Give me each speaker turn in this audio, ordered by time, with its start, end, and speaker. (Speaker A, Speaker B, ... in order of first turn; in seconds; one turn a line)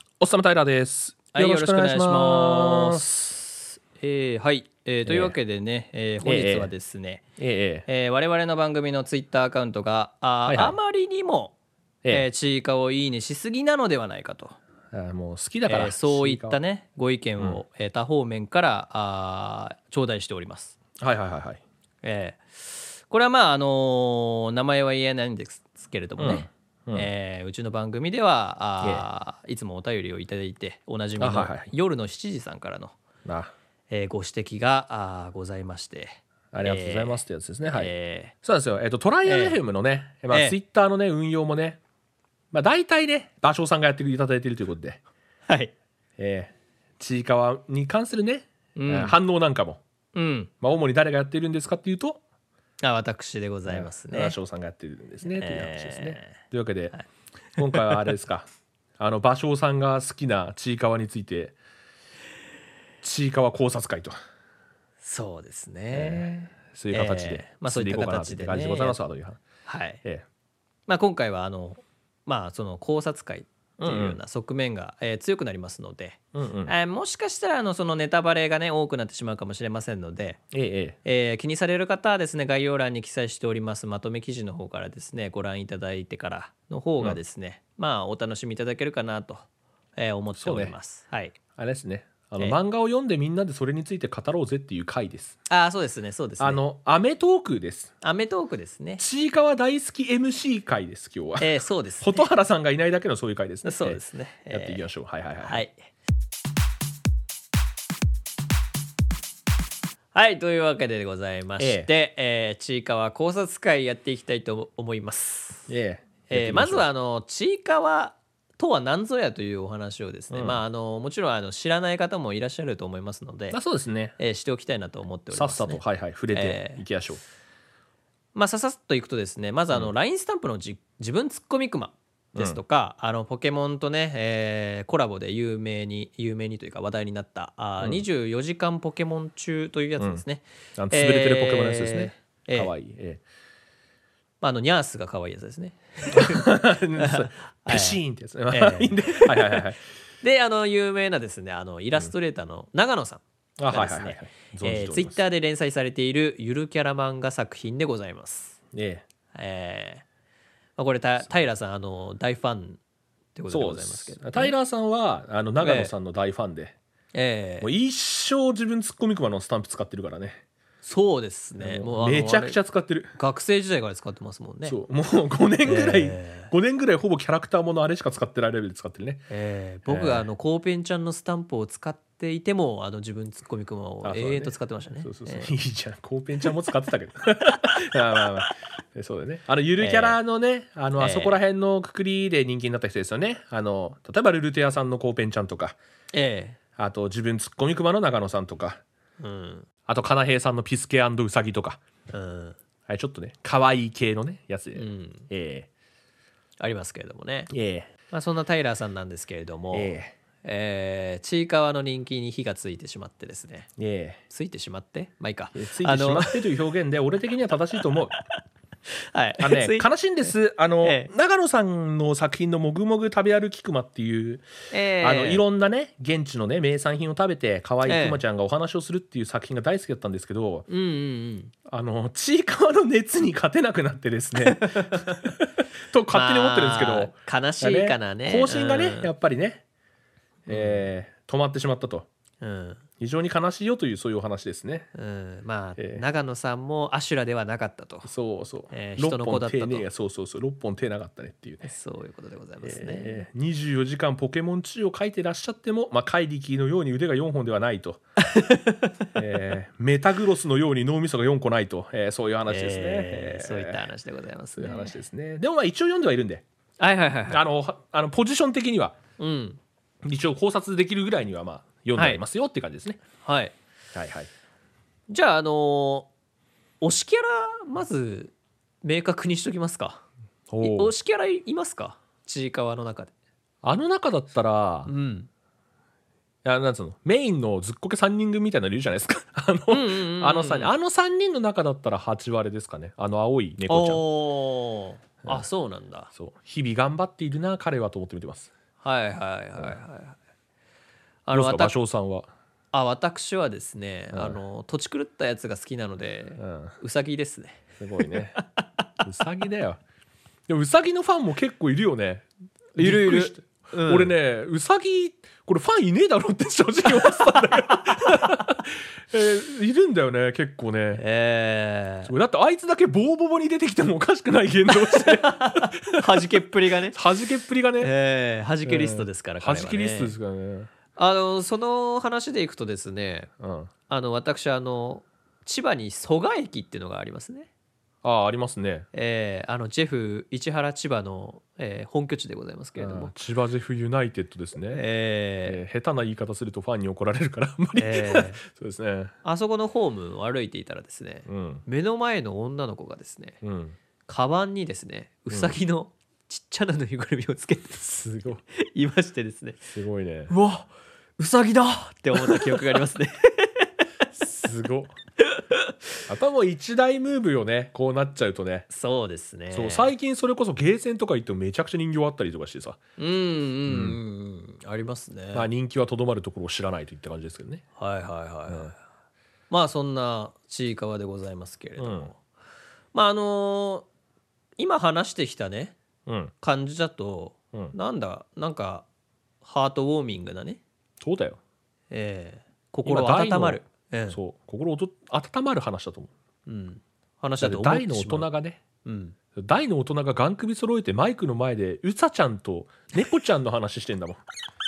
Speaker A: 0.2-3.4
Speaker B: 1.3-7.2
Speaker A: 5.0-5.3
Speaker A: 6.2-6.7
Speaker A: 7.4-7.8
Speaker B: 7.8-11.5
Speaker A: 10.5-10.8
Speaker B: 12.1-14.6
Speaker A: 14.9-16.6
Speaker B: 15.7-20.8
Speaker A: 21.0-21.6
Speaker B: 22.0-33.0
Speaker A: 26.2-27.1
Speaker A: 31.2-31.7
Speaker A: 33.2-33.5
Speaker B: 33.9-38.3
Speaker A: 36.5-37.9
Speaker A: 38.4-41.8
Speaker B: 39.2-39.6
Speaker B: 40.3-40.5
Speaker A: 42.5-45.0
Speaker B: 45.5-45.7
Speaker A: 46.2-49.8
Speaker B: 48.8-49.1
Speaker B: 50.1-50.5
Speaker A: 50.6-52.2
Speaker B: 52.8-54.4
Speaker A: 53.7-56.9
Speaker B: 55.3-56.4
Speaker A: 57.6-58.5
Speaker B: 57.7-57.9
Speaker A: 59.0-61.5
Speaker A: 63.0-64.2
Speaker B: 65.0-69.0
Speaker A: 65.9-69.4
Speaker B: 69.7-70.0
Speaker B: 70.9-80.4
Speaker A: 73.8-74.2
Speaker A: 76.3-76.7
Speaker A: 80.5-81.0
Speaker B: 81.0-91.3
Speaker A: 90.4-90.7
Speaker A: 91.5-95.4
Speaker B: 95.5-96.6
Speaker A: 96.4-97.9
Speaker B: 98.0-99.0
Speaker A: 99.0-105.6
Speaker B: 101.4-102.3
Speaker B: 103.6-104.8
Speaker B: 105.4-105.7
Speaker B: 110.1-115.7
Speaker A: 111.6-111.9
Speaker A: 115.7-116.9
Speaker B: 116.3-123.6
Speaker A: 120.3-120.6
Speaker A: 123.5-124.2
Speaker B: 124.2-125.8
Speaker A: 125.3-127.2
Speaker B: 126.3-126.8
Speaker B: 128.3-142.7
Speaker A: 140.0-140.2
Speaker A: 140.8-143.2
Speaker B: 144.4-158.6
Speaker A: 146.1-149.8
Speaker A: 153.6-155.2
Speaker A: 158.7-159.1
Speaker B: 159.3-160.0
Speaker B: 160.8-162.8
Speaker B: 163.3-164.5
Speaker A: 163.5-166.7
Speaker B: 165.6-165.9
Speaker B: 167.1-167.7
Speaker A: 167.6-170.4
Speaker B: 170.8-172.6
Speaker A: 171.6-173.1
Speaker B: 173.2-174.8
Speaker A: 174.6-179.3
Speaker B: 175.6-176.5
Speaker B: 179.3-185.5
Speaker A: 179.9-180.2
Speaker A: 184.0-195.8
Speaker B: 189.8-190.2
Speaker B: 191.0-191.4
Speaker B: 196.1-196.6
Speaker A: 196.8-198.8
Speaker B: 199.2-199.7
Speaker A: 199.9-201.8
Speaker B: 202.1-202.6
Speaker A: 202.9-205.7
Speaker B: 204.7-205.3
Speaker B: 206.6-207.5
Speaker A: 207.5-207.9
Speaker B: 208.1-213.7
Speaker A: 209.7-210.1
Speaker A: 213.8-214.2
Speaker B: 214.3-216.5
Speaker A: 215.5-218.1
Speaker B: 218.9-221.1
Speaker A: 219.4-224.5
Speaker B: 224.7-225.4
Speaker A: 225.0-230.7
Speaker B: 227.8-228.2
Speaker B: 230.7-231.5
Speaker A: 231.7-239.6
Speaker B: 234.4-235.1
Speaker B: 236.1-239.1
Speaker B: 240.5-240.9
Speaker A: 240.5-242.1
Speaker B: 242.4-242.8
Speaker A: 243.0-244.9
Speaker B: 244.9-248.1
Speaker A: 245.8-246.0
Speaker A: 248.0-251.7
Speaker B: 248.7-249.8
Speaker B: 251.6-253.2
Speaker A: 252.6-258.0
Speaker B: 258.2-259.1
Speaker A: 259.1-263.8
Speaker B: 262.5-265.0
Speaker A: 264.6-266.4
Speaker B: 266.8-267.4
Speaker A: 267.3-269.0
Speaker B: 269.2-269.6
Speaker A: 270.0-273.0
Speaker B: 271.9-272.2
Speaker B: 273.2-273.5
Speaker A: 273.9-274.3
Speaker B: 275.1-276.1
Speaker B: 276.8-280.0
Speaker A: 280.5-280.9
Speaker B: 280.6-283.1
Speaker A: 283.6-284.9
Speaker B: 284.9-285.3
Speaker A: 286.4-294.0
Speaker B: 289.7-290.7
Speaker B: 293.7-296.1
Speaker A: 296.1-298.5
Speaker B: 298.8-300.2
Speaker B: 301.2-301.7
Speaker A: 301.3-302.3
Speaker B: 302.7-308.1
Speaker A: 304.1-304.4
Speaker A: 306.4-306.7
Speaker A: 307.8-308.4
Speaker A: 309.0-309.8
Speaker A: 310.5-321.0
Speaker B: 312.8-314.1
Speaker B: 320.9-322.1
Speaker A: 322.1-326.4
Speaker B: 324.7-327.0
Speaker A: 326.9-327.9
Speaker B: 327.8-330.1
Speaker A: 328.6-330.7
Speaker B: 330.9-333.3
Speaker A: 333.4-333.7
Speaker B: 333.9-337.5
Speaker A: 338.0-338.9
Speaker B: 338.9-343.1
Speaker A: 342.8-344.8
Speaker B: 344.7-345.6
Speaker A: 345.4-349.1
Speaker B: 347.8-348.4
Speaker B: 349.2-353.4
Speaker A: 351.3-351.6
Speaker A: 353.4-353.8
Speaker B: 354.1-359.6
Speaker A: 355.3-355.6
Speaker A: 357.9-358.4
Speaker A: 359.7-360.3
Speaker B: 360.3-363.7
Speaker A: 362.2-362.8
Speaker A: 364.2-364.9
Speaker B: 365.3-365.6
Speaker A: 366.1-368.6
Speaker B: 368.7-369.9
Speaker A: 369.5-372.8
Speaker B: 373.0-375.5
Speaker A: 373.7-374.0
Speaker A: 375.3-377.6
Speaker B: 377.8-378.8
Speaker A: 378.5-378.7
Speaker B: 379.5-382.2
Speaker A: 381.8-382.1
Speaker B: 382.9-383.9
Speaker B: 384.6-385.8
Speaker A: 386.1-386.3
Speaker B: 386.4-388.8
Speaker B: 389.4-390.6
Speaker A: 391.0-391.4
Speaker B: 391.9-394.2
Speaker A: 392.8-396.1
Speaker B: 396.4-398.3
Speaker A: 397.4-398.6
Speaker B: 398.8-399.1
Speaker A: 399.4-404.2